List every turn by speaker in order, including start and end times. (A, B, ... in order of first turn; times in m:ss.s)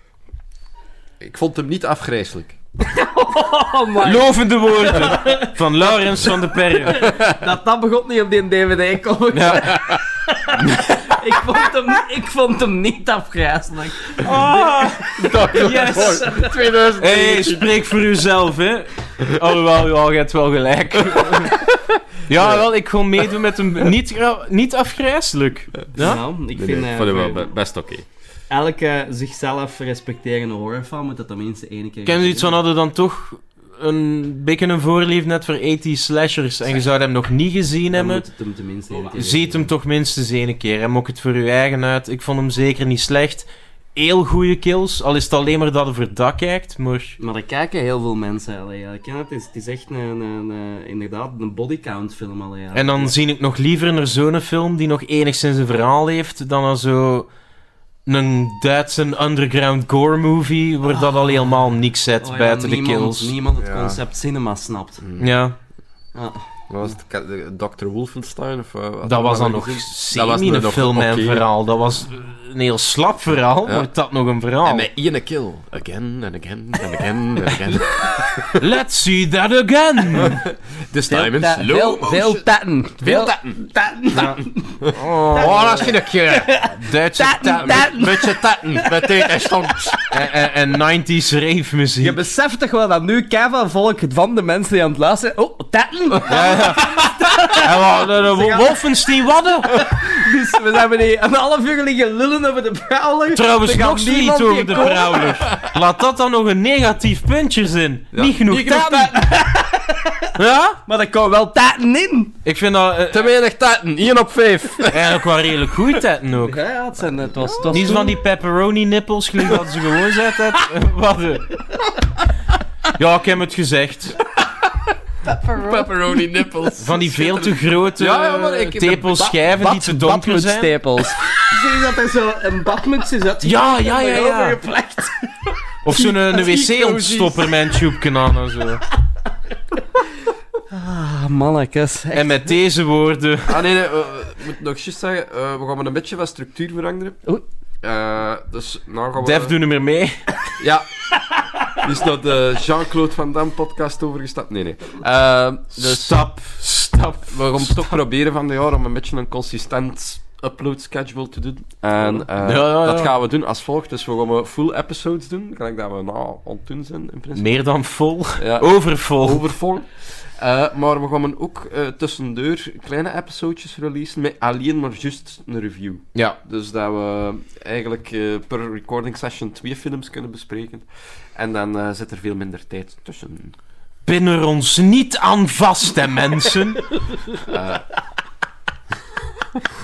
0:01.2-0:02.6 A
0:02.8-0:16.6 B
0:04.0-0:07.0 C
0:07.0-0:07.4 A
0:09.3-0:09.9 C
0:14.2-0:16.2 C
0:15.2-0:17.7 A
0:17.0-0:21.6 C
0:22.3-0:26.2 C
0:22.3-0:22.7 A
0:26.0-0:27.5 B
0:26.5-0:28.1 A
0:28.5-0:32.6 B
0:32.1-0:38.2 C
0:37.9-0:39.7 B
0:39.2-0:47.2 C
0:47.2-0:53.1 B
0:52.7-0:57.3 C
0:58.1-1:03.3 C
1:01.0-1:01.3 B
1:02.2-1:05.0 B
1:03.6-1:04.0 A
1:05.0-1:05.3 A
1:05.2-1:05.6 C
1:06.2-1:06.4 B
1:06.7-1:11.5 A
1:09.1-1:14.9 C
1:14.6-1:18.6 A
1:18.6-1:20.4 C
1:20.1-1:22.4 A
1:21.1-1:29.9 B
1:23.0-1:23.7 A
1:24.1-1:25.9 C
1:24.8-1:26.5 A
1:26.6-1:27.9 C
1:27.4-1:30.0 A
1:30.1-1:32.2 C
1:32.0-1:38.8 B
1:36.3-1:39.8 C
1:39.6-1:45.5 B
1:43.3-1:49.1 C
1:48.1-1:49.2 A
1:49.1-1:50.4 B
1:50.4-1:50.8 C
1:50.9-1:52.4 B
1:52.4-1:53.3 C
1:53.1-1:55.2 A
1:54.9-1:56.6 C
1:56.4-1:58.2 B
1:57.6-1:58.0 A
1:57.7-2:01.5 C
2:03.0-2:04.2 C
2:05.3-2:06.2 B
2:05.5-2:09.4 A
2:06.8-2:10.8 C
2:09.5-2:18.0 B
2:13.4-2:14.6 C
2:15.8-2:18.8 C
2:20.7-2:22.6 B
2:22.1-2:23.6 C
2:23.5-2:27.2 A
2:27.8-2:29.6 A
2:29.2-2:30.2 C
2:30.6-2:30.9 A
2:31.8-2:36.3 A
2:35.8-2:37.9 C
2:37.2-2:47.5 A
2:42.4-2:43.1 C
2:47.4-2:49.5 C
2:48.4-3:03.6 A
3:04.1-3:06.8 C
3:07.5-3:07.9 A